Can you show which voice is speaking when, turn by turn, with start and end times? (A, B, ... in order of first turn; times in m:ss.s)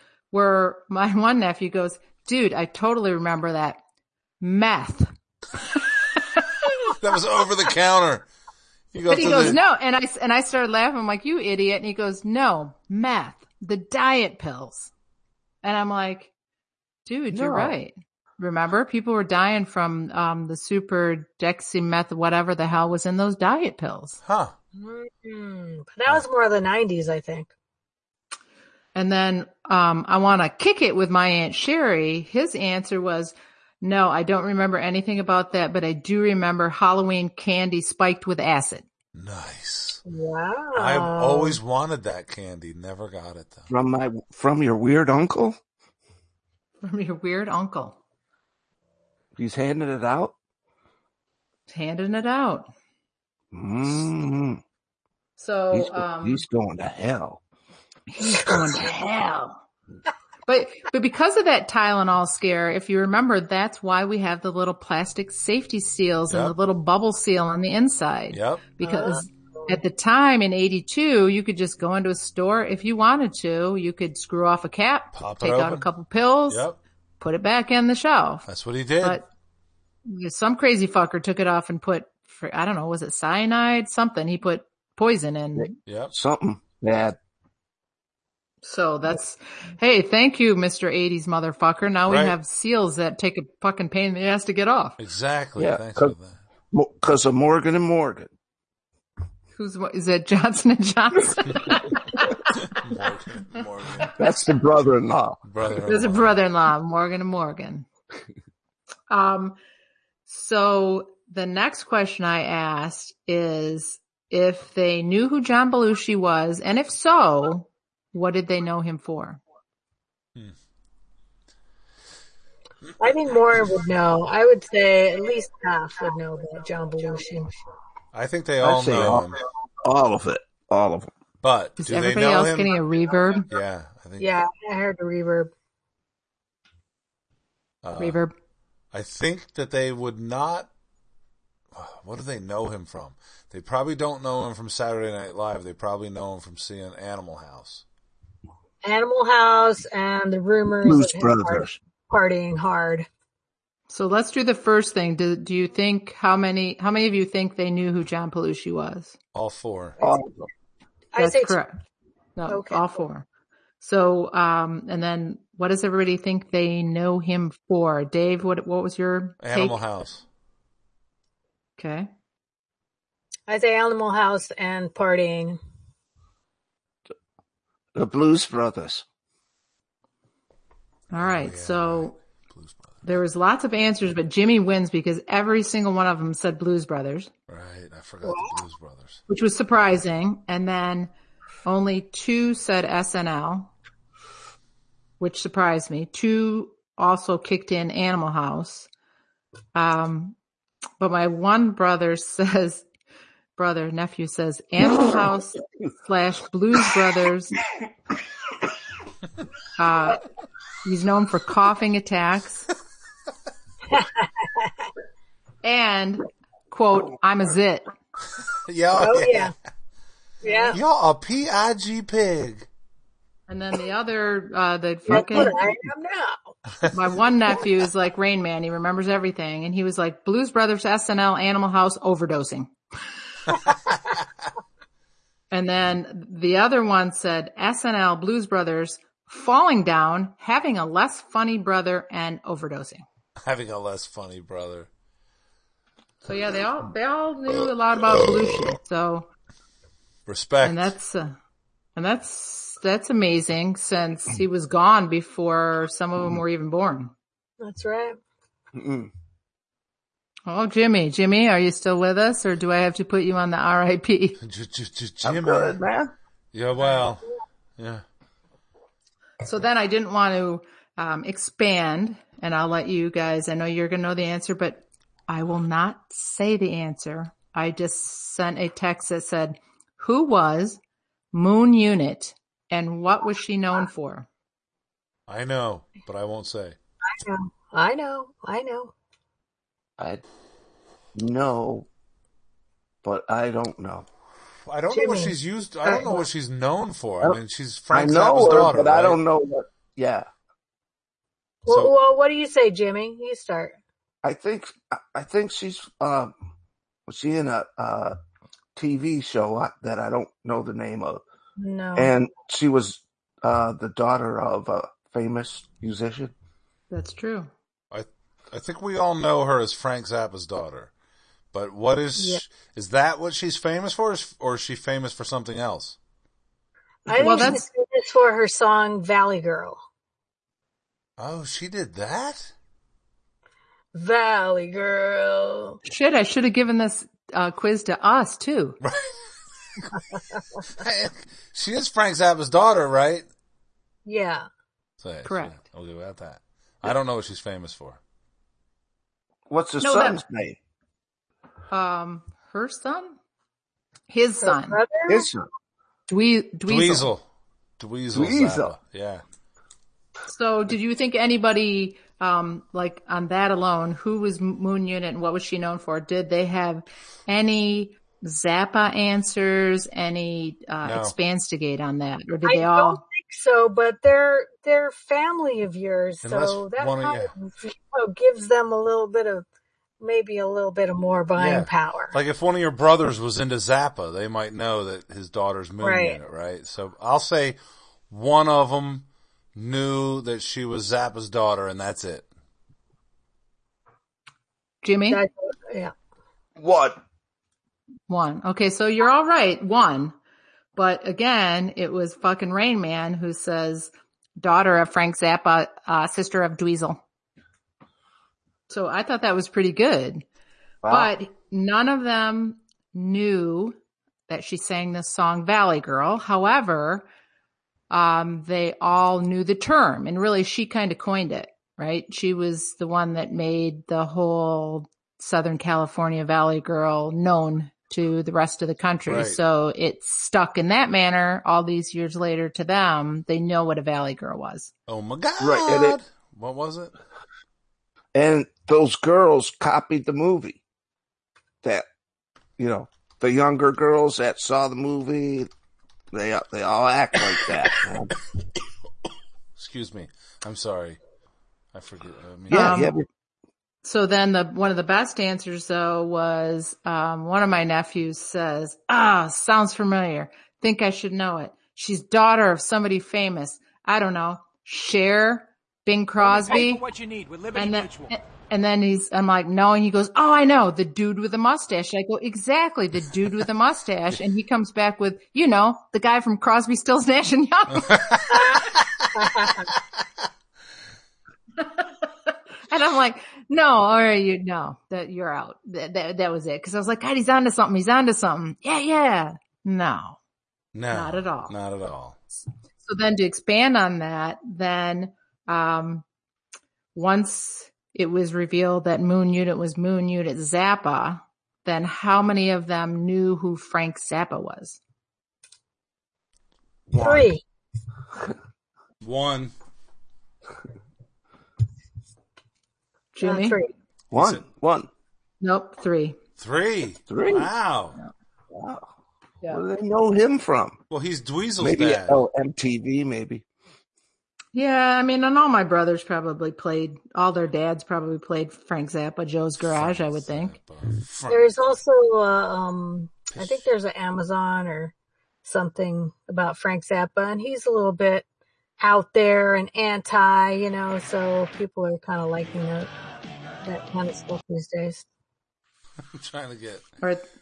0:00.3-0:03.8 A
0:04.4-0:05.1 A
0:05.7-0:06.7 A
0:07.0-0:08.3 B
0:08.9-0:09.6 B
0:09.1-0:14.9 A
0:15.6-0:16.3 A
0:17.0-0:24.2 A
0:17.3-0:17.7 C
0:24.2-0:24.5 B
0:24.8-0:27.5 D
0:28.9-0:38.8 A
0:39.1-0:40.0 B
0:40.1-0:41.6 D
0:40.7-0:43.7 B
0:43.7-0:45.6 C
0:46.8-0:48.0 A
0:49.4-0:50.3 C
0:51.7-0:52.7 A
0:53.5-0:54.6 C
0:55.4-0:56.4 A
0:55.7-0:57.4 C
0:58.1-0:59.6 A
1:00.5-1:16.6 A
1:06.3-1:06.5 B
1:08.3-1:08.6 B
1:08.8-1:09.2 D
1:15.2-1:15.8 B
1:16.5-1:16.8 B
1:17.2-1:18.5 A
1:18.5-1:19.2 B
1:20.0-1:25.7 A
1:25.6-1:27.2 C
1:25.8-1:26.1 B
1:28.6-1:35.0 A
1:32.1-1:32.4 B
1:35.0-1:36.4 B
1:35.6-1:36.1 C
1:36.7-1:38.3 C
1:39.6-1:42.4 A
1:42.6-1:44.2 B
1:44.2-1:45.4 C
1:45.4-1:46.3 B
1:45.8-1:47.8 A
1:49.1-1:49.6 A
1:50.3-1:59.4 A
2:03.0-2:07.5 D
2:08.1-2:09.4 B
2:08.6-2:11.1 C
2:11.4-2:12.7 B
2:11.8-2:13.5 A
2:13.5-2:14.3 B
2:14.2-2:15.5 D
2:17.8-2:18.2 B
2:18.0-2:18.3 A
2:18.9-2:20.7 B
2:21.7-2:27.8 B
2:28.8-2:33.1 D
2:30.8-2:31.8 C
2:33.9-2:39.1 A
2:39.3-2:40.0 B
2:40.0-2:40.5 C
2:41.1-2:41.6 D
2:41.2-2:41.7 A
2:42.4-2:43.2 A
2:42.5-2:43.0 D
2:43.8-2:49.8 A
2:49.4-2:50.2 B
2:51.8-2:52.1 A
2:53.5-2:55.6 D
2:57.9-2:59.0 C
3:01.1-3:02.1 A
3:01.2-3:03.0 B
3:03.0-3:07.3 A
3:07.5-3:09.2 B
3:08.2-3:08.5 D
3:09.3-3:11.1 A
3:11.6-3:13.7 A
3:15.2-3:18.9 A
3:19.7-3:20.4 A
3:21.0-3:22.8 A
3:23.6-3:27.6 A
3:29.8-3:30.2 A
3:30.8-3:32.7 A
3:33.9-3:34.7 D
3:35.6-3:37.9 A
3:38.6-3:39.5 B
3:39.0-3:39.5 D
3:40.4-3:40.8 D
3:40.7-3:42.7 B
3:43.5-3:45.6 A
3:45.1-3:45.5 C
3:45.1-3:46.5 D
3:46.9-3:52.7 A
3:55.5-4:03.0 A
4:03.4-4:04.9 B
4:06.2-4:09.3 A
4:10.3-4:10.9 B
4:10.6-4:11.3 A
4:12.0-4:17.1 A
4:17.6-4:18.2 D
4:18.7-4:19.1 C
4:20.5-4:24.4 A
4:24.4-4:25.8 B
4:25.2-4:26.1 C
4:26.5-4:27.2 B
4:27.8-4:28.0 B
4:29.4-4:40.8 A
4:41.3-4:44.2 A
4:45.3-4:46.8 B
4:47.1-4:48.9 D
4:50.0-4:50.2 C
4:51.1-4:51.9 C
4:53.0-4:54.1 C
4:54.7-4:59.2 B
4:54.9-4:56.2 D
4:57.9-5:00.3 C
5:01.6-5:03.8 D
5:01.7-5:01.9 B
5:04.2-5:06.3 C
5:07.1-5:08.2 C
5:08.8-5:11.2 C
5:11.6-5:12.1 D
5:12.0-5:16.3 C
5:16.9-5:17.5 A
5:17.9-5:20.9 B
5:21.5-5:26.0 B
5:22.2-5:22.4 D
5:27.0-5:29.8 D
5:27.2-5:27.6 A
5:31.2-5:32.5 B
5:33.9-5:35.8 D
5:35.8-5:38.8 A
5:38.8-5:39.2 B
5:40.8-5:43.2 B
5:44.0-5:44.5 D
5:45.0-5:48.0 B
5:45.2-5:45.6 A
5:49.5-5:50.6 C
5:49.8-5:50.2 A
5:51.7-5:53.2 A
5:54.1-5:54.8 A
5:54.4-5:55.2 D
5:55.1-5:55.5 C
5:56.1-5:57.1 A
5:56.7-5:57.2 B
5:57.8-5:59.2 B
5:58.1-5:58.7 C
6:00.3-6:13.0 A
6:10.8-6:11.1 B
6:12.4-6:19.4 D
6:16.2-6:17.3 B
6:20.0-6:22.1 D
6:21.4-6:27.6 B
6:25.8-6:26.2 D
6:28.1-6:32.2 B
6:34.8-6:35.2 A
6:35.1-6:35.9 D
6:36.6-6:37.0 C
6:38.1-6:40.1 A
6:40.8-6:47.0 A
6:48.7-6:50.2 A
6:50.8-6:51.1 C
6:50.9-6:53.8 A
6:54.3-6:57.0 A
6:57.9-7:14.7 A
7:09.1-7:09.4 B
7:14.9-7:16.9 B
7:15.4-7:16.0 C
7:18.1-7:20.6 C
7:22.6-7:25.5 C
7:26.1-7:28.1 C
7:29.6-7:31.0 B
7:31.7-7:32.7 B
7:32.5-7:33.1 C
7:32.5-7:32.9 A
7:33.8-7:46.9 A
7:46.2-7:48.1 E
7:47.5-7:58.4 A
7:57.7-7:59.1 B
7:58.3-7:58.6 D
7:59.1-7:59.6 D
8:01.6-8:10.2 A
8:10.7-8:12.2 B
8:10.9-8:11.5 A
8:12.8-8:16.0 A
8:16.9-8:24.8 A
8:26.9-8:27.3 C
8:27.0-8:27.4 D
8:29.0-8:29.5 B
8:33.1-8:33.6 A
8:33.2-8:33.7 D
8:34.1-8:34.9 C
8:34.1-8:34.4 B
8:35.4-8:36.2 A
8:36.4-8:38.0 B
8:37.1-8:37.5 C
8:38.5-8:38.9 C
8:39.5-8:40.8 C
8:40.9-8:42.2 B
8:41.6-8:43.4 C
8:44.5-8:50.6 A
8:49.7-8:51.5 B
8:51.3-8:54.9 D
8:53.3-8:53.6 B
8:55.4-8:58.2 D
8:58.8-9:02.9 D
9:03.6-9:05.0 D
9:06.1-9:06.9 B